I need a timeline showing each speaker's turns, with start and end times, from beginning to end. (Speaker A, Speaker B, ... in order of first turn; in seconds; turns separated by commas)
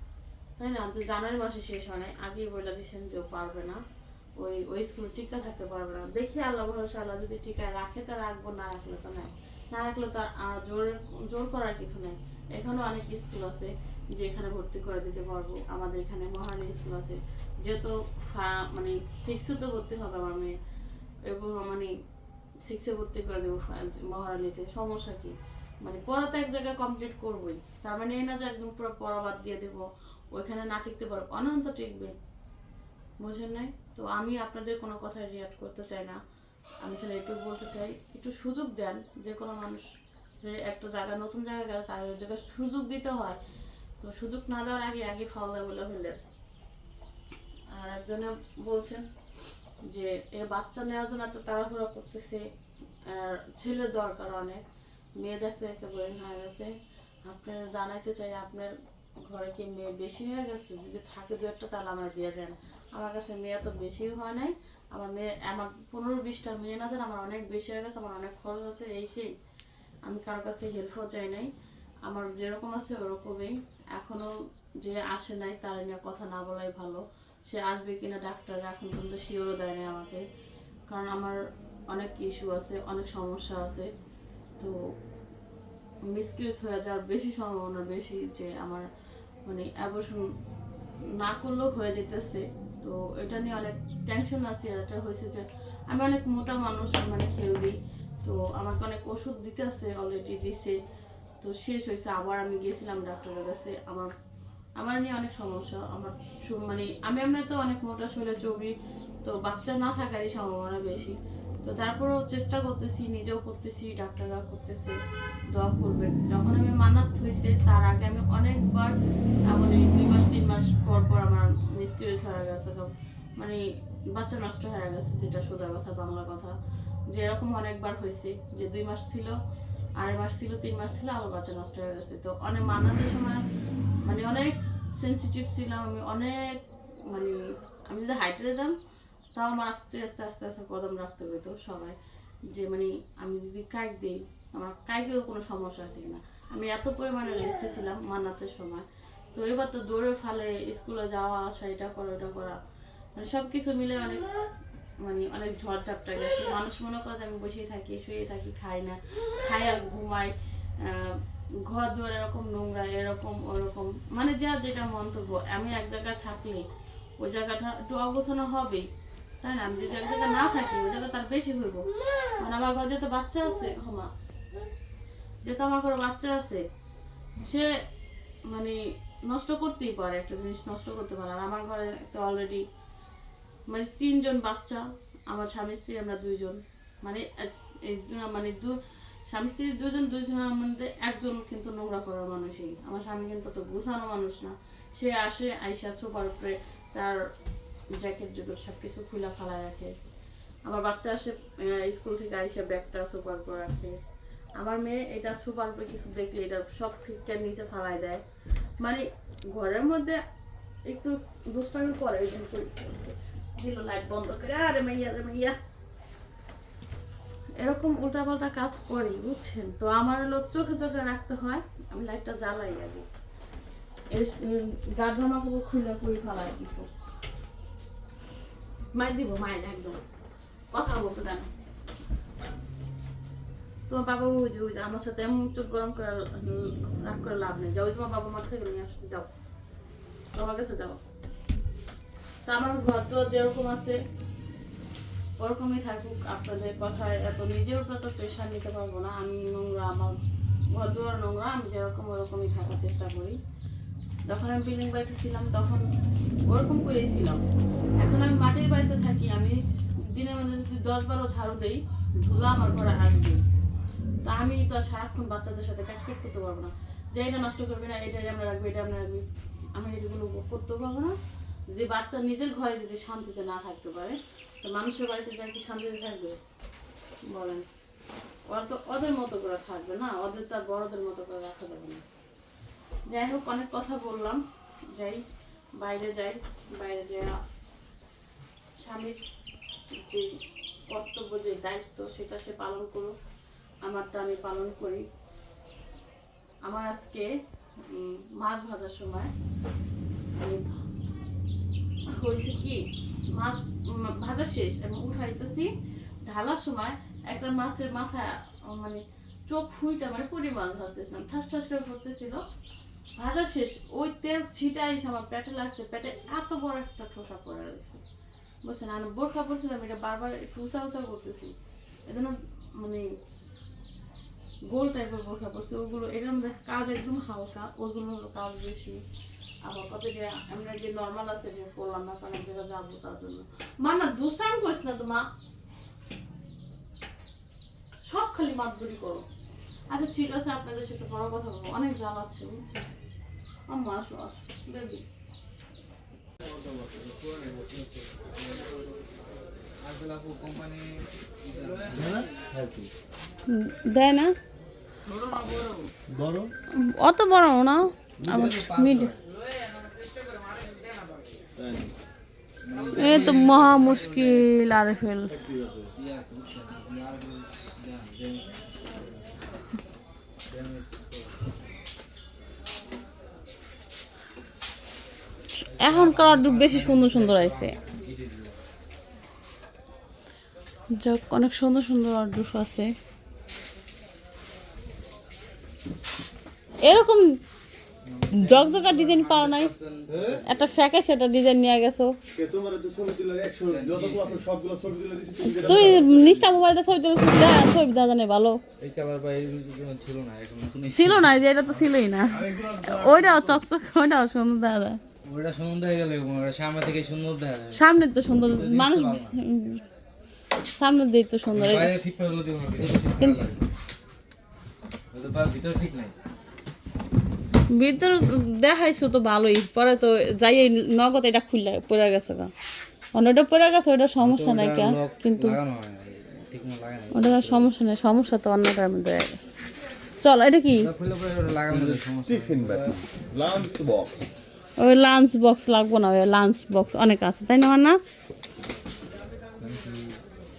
Speaker A: 0.6-3.8, Speaker A: 4.4-20.5, Speaker A: 21.3-21.9, Speaker A: 22.6-32.1, Speaker A: 33.2-36.2, Speaker A: 36.8-39.9, Speaker A: 40.4-43.4, Speaker A: 44.0-46.3, Speaker A: 47.7-49.1, Speaker A: 49.9-52.4, Speaker A: 53.1-54.6, Speaker A: 55.2-56.7, Speaker A: 57.2-58.7, Speaker A: 59.2-69.3, Speaker A: 70.1-71.5, Speaker A: 72.1-80.2, Speaker A: 80.9-81.4, Speaker A: 81.9-83.9, Speaker A: 86.1-88.8, Speaker A: 89.5-90.2, Speaker A: 91.1-100.8, Speaker A: 101.4-104.1, Speaker A: 104.8-108.7, Speaker A: 109.2-115.0, Speaker A: 115.5-119.0, Speaker A: 119.5-123.6, Speaker A: 124.2-126.5, Speaker A: 127.1-129.3, Speaker A: 130.0-133.4, Speaker A: 134.0-138.8, Speaker A: 139.3-142.0, Speaker A: 142.5-152.6, Speaker A: 153.2-154.2, Speaker A: 155.0-166.7, Speaker A: 167.2-168.9, Speaker A: 169.4-171.9, Speaker A: 172.4-174.1, Speaker A: 175.4-176.6, Speaker A: 177.4-177.7, Speaker A: 178.5-182.6, Speaker A: 183.7-188.8, Speaker A: 189.3-197.2, Speaker A: 198.0-199.9, Speaker A: 200.7-204.0, Speaker A: 204.6-208.2, Speaker A: 208.8-210.2, Speaker A: 210.9-215.6, Speaker A: 217.6-223.1, Speaker A: 224.1-226.9, Speaker A: 228.9-230.0, Speaker A: 230.7-231.5, Speaker A: 233.9-239.3, Speaker A: 240.3-241.0, Speaker A: 242.5-244.0, Speaker A: 245.4-250.1, Speaker A: 250.8-253.4, Speaker A: 254.3-255.8, Speaker A: 256.5-257.4, Speaker A: 258.0-259.6, Speaker A: 260.1-263.4, Speaker A: 264.2-269.2, Speaker A: 269.8-271.1, Speaker A: 271.7-276.4, Speaker A: 277.3-277.6, Speaker A: 278.5-282.0, Speaker A: 283.1-284.4, Speaker A: 285.0-285.2, Speaker A: 285.8-287.3, Speaker A: 288.8-289.2, Speaker A: 290.9-293.1, Speaker A: 293.8-295.1, Speaker A: 296.6-297.3, Speaker A: 297.9-299.3, Speaker A: 300.4-300.6, Speaker A: 302.1-305.7, Speaker A: 306.2-312.4, Speaker A: 313.2-318.0, Speaker A: 318.6-321.5, Speaker A: 322.1-323.1, Speaker A: 324.7-329.0, Speaker A: 329.6-335.2, Speaker A: 338.1-339.2, Speaker A: 339.9-342.9, Speaker A: 343.7-345.0, Speaker B: 346.7-348.8, Speaker B: 349.8-352.1, Speaker C: 351.9-352.9, Speaker A: 353.5-354.3, Speaker C: 356.1-356.5, Speaker A: 356.7-359.1, Speaker C: 358.2-358.5, Speaker B: 358.2-359.2, Speaker C: 361.6-361.9, Speaker B: 362.6-364.5, Speaker A: 362.9-365.3, Speaker C: 365.3-365.9, Speaker B: 366.0-369.1, Speaker B: 370.5-371.5, Speaker B: 375.8-378.6, Speaker A: 375.8-377.8, Speaker A: 381.0-382.9, Speaker A: 386.8-387.2, Speaker B: 388.1-390.6, Speaker A: 388.4-389.7, Speaker C: 390.1-390.4, Speaker A: 390.4-392.1, Speaker C: 392.3-396.2, Speaker B: 393.7-394.5, Speaker A: 395.6-398.6, Speaker B: 398.8-401.9, Speaker A: 400.9-405.0, Speaker C: 402.4-403.4, Speaker B: 405.2-407.8, Speaker A: 407.7-409.8, Speaker B: 408.5-409.4, Speaker A: 410.8-411.9, Speaker B: 411.5-413.6, Speaker A: 413.2-413.5, Speaker B: 415.1-416.1, Speaker A: 417.8-422.5, Speaker A: 423.1-425.6, Speaker B: 424.2-427.7, Speaker A: 427.1-429.6, Speaker A: 430.2-430.9, Speaker B: 430.8-433.0, Speaker C: 431.7-434.2, Speaker A: 434.8-438.0, Speaker B: 439.6-440.2